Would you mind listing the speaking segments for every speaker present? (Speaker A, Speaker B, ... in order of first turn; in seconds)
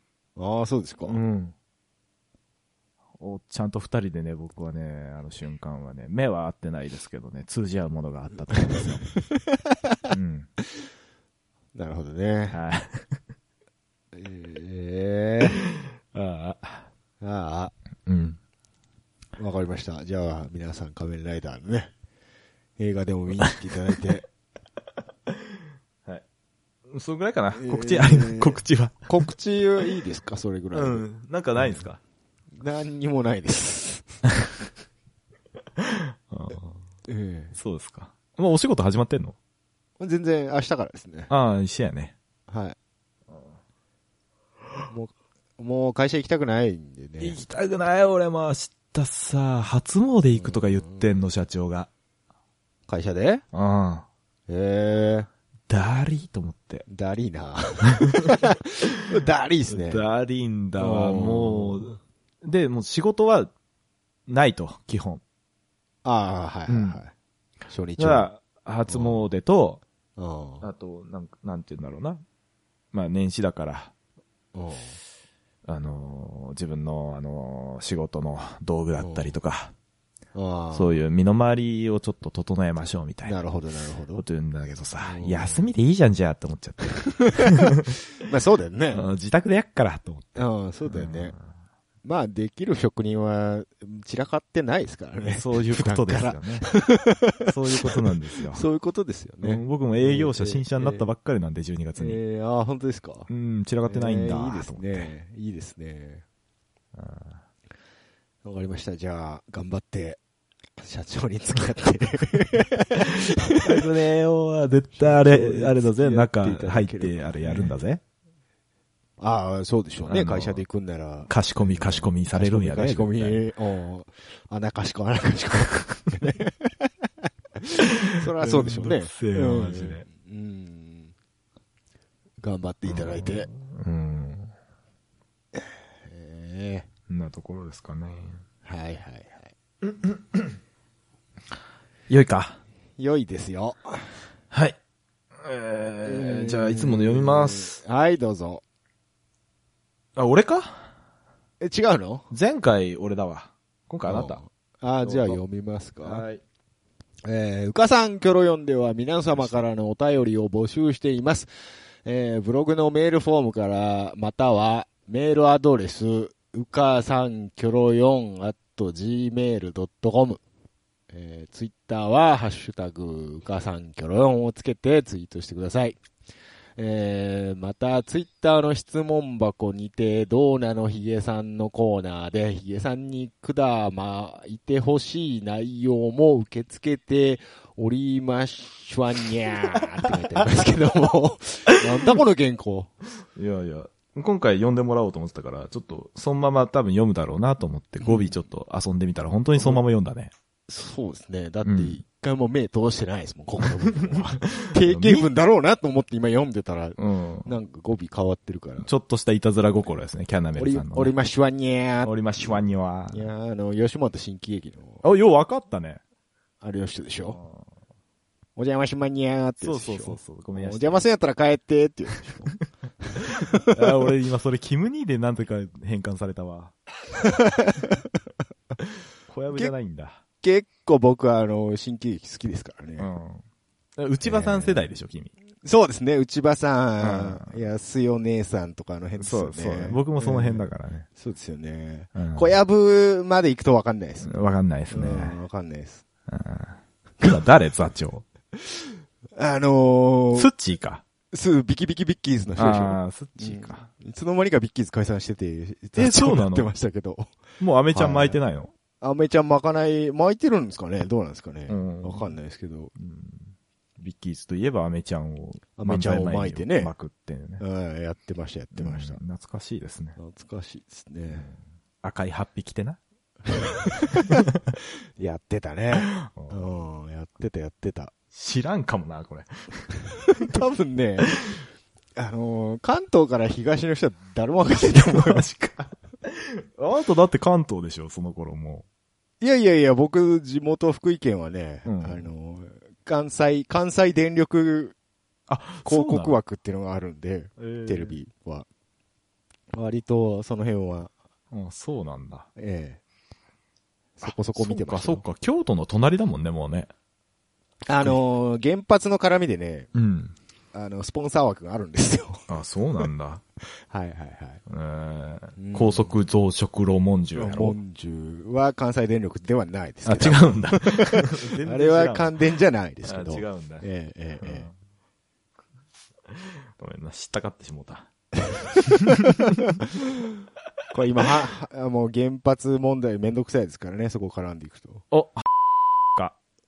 Speaker A: 0.4-1.2, 8.7-9.9, 11.7-12.6, 14.1-15.6, 17.2-17.7, 19.4-21.9, 22.8-24.2, 27.6-31.0, 31.6-31.8, 32.5-34.2, 37.1-37.5, 40.0-41.3, 42.5-42.8, 44.9-47.4, 50.4-51.0, 52.9-53.4, 54.5-55.3, 56.9-60.0, 60.8-61.9, 66.0-67.1, 67.7-68.3, 68.9-69.2, 70.2-70.7, 74.5-75.0, 79.0-79.3, 80.3-80.9, 83.2-84.2, 85.0-85.6, 87.3-87.7, 88.2-89.0, 90.4-91.3, 92.0-98.0, 98.5-101.0, 102.0-103.3, 103.9-106.2, 108.4-110.2, 110.8-113.8, 114.9-117.7, 119.2-127.1, 127.6-131.1, 132.4-133.5, 135.5-136.9, 138.6-139.5, 143.0-144.2, 146.0-148.6, 151.6-152.3, 154.1-156.2, 157.2-161.5, 162.0-170.4, 171.1-176.0, 176.8-192.9, 198.0-198.3, 199.6-199.8, 200.7-208.9, 210.6-215.0, 216.6-217.4, 218.6-222.5, 223.5-223.8, 227.2-228.0, 230.4-233.1, 234.2-234.9, 235.6-244.3, 244.9-246.0, 248.6-250.5, 251.3-257.3, 257.9-258.4, 259.0-262.9, 265.8-266.9, 267.6-269.2, 270.2-271.5, 273.5-274.4, 275.2-278.1, 280.3-281.3, 282.1-285.4, 289.4-294.9, 295.8-298.6, 299.7-301.1, 302.6-303.0, 304.2-305.2, 307.9-309.9, 310.7-312.4, 313.8-314.6, 315.6-316.1, 317.3-324.7, 330.9-335.0
Speaker B: 1.1-1.5, 3.2-9.1, 10.1-10.5, 12.5-13.2, 16.1-16.9, 18.1-18.4, 26.9-29.3, 30.7-32.0, 35.8-36.8, 37.5-39.4, 41.3-42.1, 47.2-51.9, 53.5-54.1, 55.7-56.9, 57.9-58.3, 59.7-63.5, 64.3-65.2, 66.7-67.0, 68.0-69.8, 70.6-72.2, 72.9-73.9, 75.7-79.7, 80.7-83.4, 84.2-88.0, 88.9-91.4, 95.3-96.7, 97.5-98.6, 99.4-102.2, 103.3-105.1, 106.9-107.4, 113.0-118.0, 120.1-120.6, 121.3-123.4, 127.8-130.1, 132.9-134.5, 137.1-138.4, 139.8-140.5, 142.1-142.6, 144.5-144.8, 145.4-147.8, 150.2-150.9, 152.3-154.4, 155.0-155.4, 156.0-156.4, 159.3-159.6, 193.3-200.3, 201.6-202.0, 203.6-205.3, 207.0-207.5, 208.8-211.1, 212.0-213.3, 215.0-216.0, 217.3-217.7, 219.6-221.0, 223.1-226.7, 229.3-230.2, 233.0-233.4, 234.0-235.3, 237.0-237.6, 239.2-241.1, 242.1-242.5, 244.2-245.4, 246.3-248.2, 250.3-251.0, 252.6-253.9, 255.9-256.7, 257.6-258.7, 261.7-262.4, 263.0-267.6, 268.7-270.2, 271.3-273.0, 274.1-274.6, 275.9-276.8, 278.3-280.6, 281.3-281.6, 284.9-288.8, 291.8-292.3, 295.5-296.4, 297.6-298.2, 301.5-302.5, 304.2-306.9, 309.9-310.3, 312.5-313.4, 314.7-317.8, 320.0-322.3, 323.0-323.8, 324.4-324.7, 326.3-328.1, 328.8-329.7, 335.1-335.4